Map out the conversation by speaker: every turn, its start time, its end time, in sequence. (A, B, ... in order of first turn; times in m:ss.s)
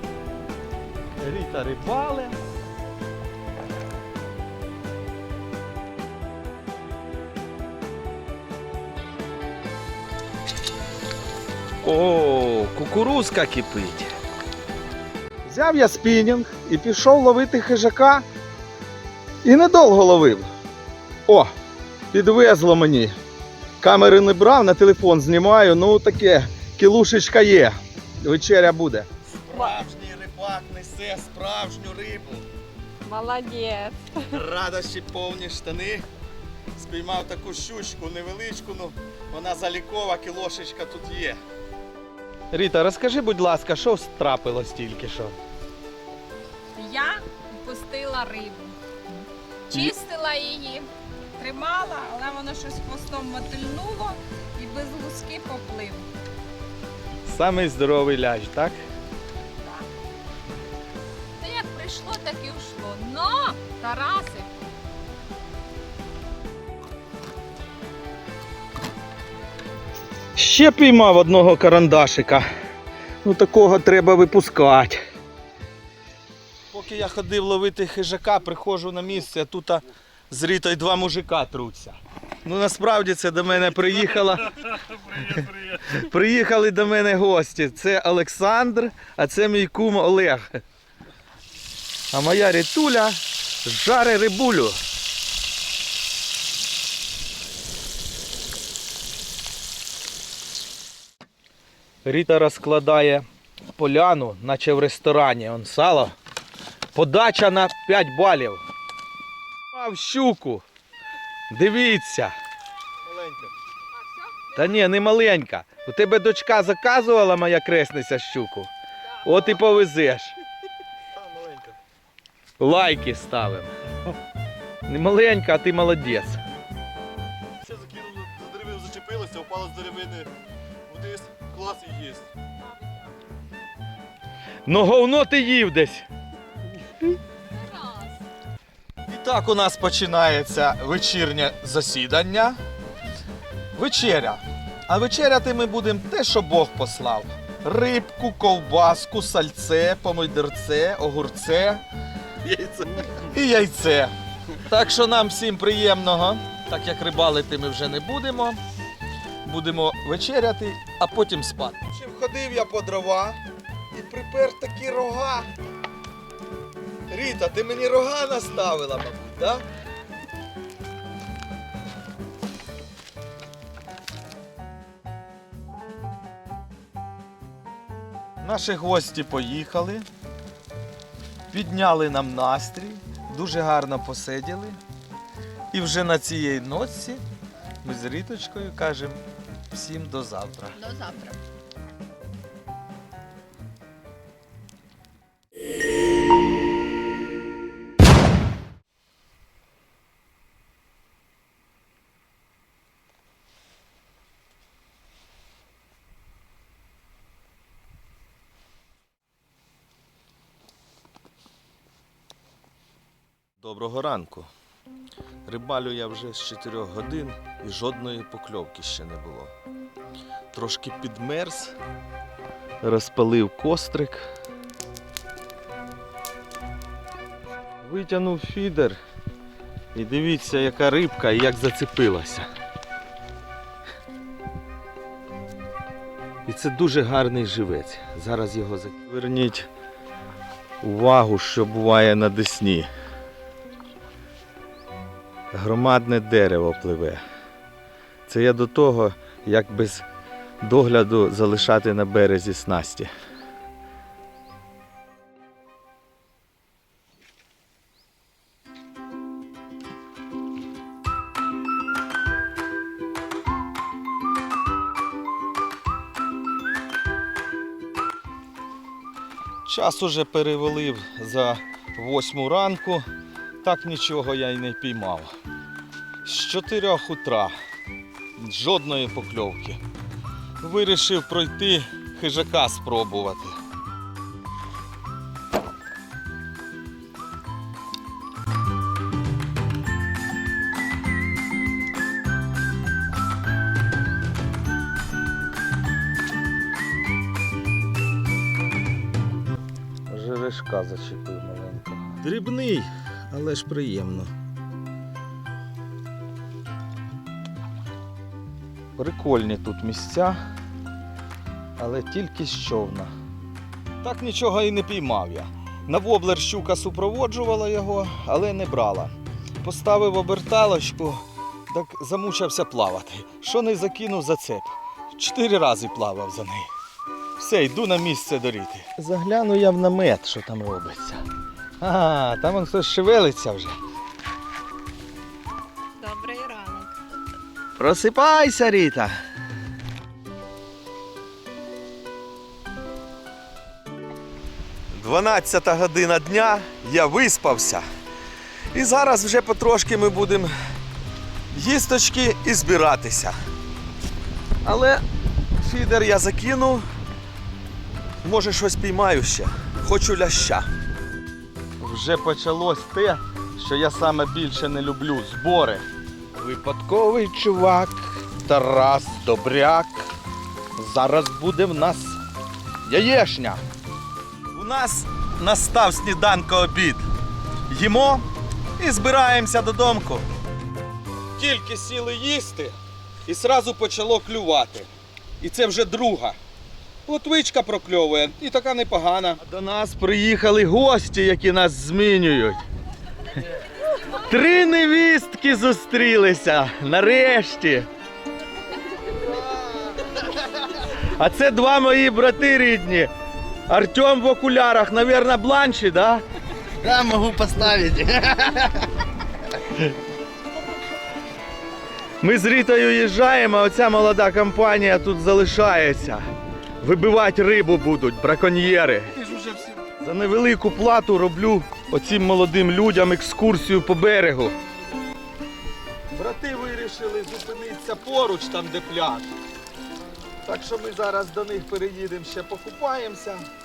0:01.2-0:02.4 A
0:11.8-0:14.1 A
0:15.5-0:18.3 A
0:19.4-0:20.5 A
0:21.3-0:21.5 A
0:22.1-0:23.2 A
0:23.8-0:32.4 A
0:33.0-0:34.4 B
0:34.3-0:36.0 A
0:36.8-0:41.4 A
0:42.5-0:45.4 A
0:46.7-0:56.1 B
0:57.3-0:58.8 A
0:59.6-0:59.9 B
1:01.4-1:04.5 B
1:10.4-1:12.5 A
1:13.2-1:15.0 A
1:16.7-1:30.6 A
1:32.1-1:34.8 A
1:42.0-1:43.2 A
1:43.8-1:46.2 A
1:46.9-1:48.6 A
1:49.7-1:50.6 A
1:51.5-1:52.3 A
1:54.5-2:00.4 A
2:01.2-2:01.7 C
2:02.6-2:03.7 A
2:04.9-2:06.4 A
2:07.6-2:10.0 C
2:09.3-2:10.3 A
2:10.9-2:12.2 C
2:14.7-2:16.1 A
2:17.5-2:18.2 B
2:19.1-2:22.6 A
2:23.8-2:31.8 A
2:32.4-2:34.1 A
2:34.6-2:38.6 A
2:39.4-2:43.4 A
2:43.9-2:45.5 A
2:47.1-2:49.6 A
2:58.4-3:00.0 A
3:01.5-3:04.8 A
3:05.7-3:07.2 A
3:07.8-3:10.8 A
3:10.8-3:11.4 B
3:33.6-3:34.5 A
3:35.5-3:39.5 A
3:40.5-3:41.8 A
3:42.8-3:44.3 A
3:47.8-3:49.0 A
3:49.9-3:52.5 A
3:56.5-3:59.7 A
4:00.8-4:02.9 A
4:05.5-4:07.2 A
4:08.3-4:10.0 A
4:10.6-4:13.1 A
4:29.6-4:33.0 A
4:33.6-4:35.3 A
4:36.2-4:37.5 A
4:38.4-4:39.8 A
4:40.6-4:43.6 A
5:00.1-5:04.3 A
5:09.0-5:10.4 A
5:11.8-5:13.1 A
5:14.0-5:26.7 A
5:27.4-5:31.2 A
5:31.8-5:33.8 A
5:36.0-5:37.0 B
5:37.8-5:39.1 A
5:44.9-5:47.8 A
5:48.7-5:50.5 A
5:51.5-5:53.3 A
5:54.6-5:55.0 A
5:55.6-5:56.8 A
5:58.2-6:00.7 A
6:01.8-6:05.8 A
6:06.4-6:10.1 A
6:10.8-6:12.2 A
6:12.8-6:13.6 A
6:14.5-6:17.0 A
6:17.7-6:18.3 A
6:18.8-6:20.3 A
6:21.4-6:24.9 A
6:25.4-6:26.4 A
6:27.1-6:32.6 A
6:34.0-6:37.9 A
6:39.1-6:39.6 A
6:40.8-6:43.1 A
6:43.7-6:46.2 A
6:46.8-6:48.9 A
6:52.2-6:56.2 A
6:56.8-7:04.6 A
7:06.2-7:09.3 A
7:10.5-7:13.5 A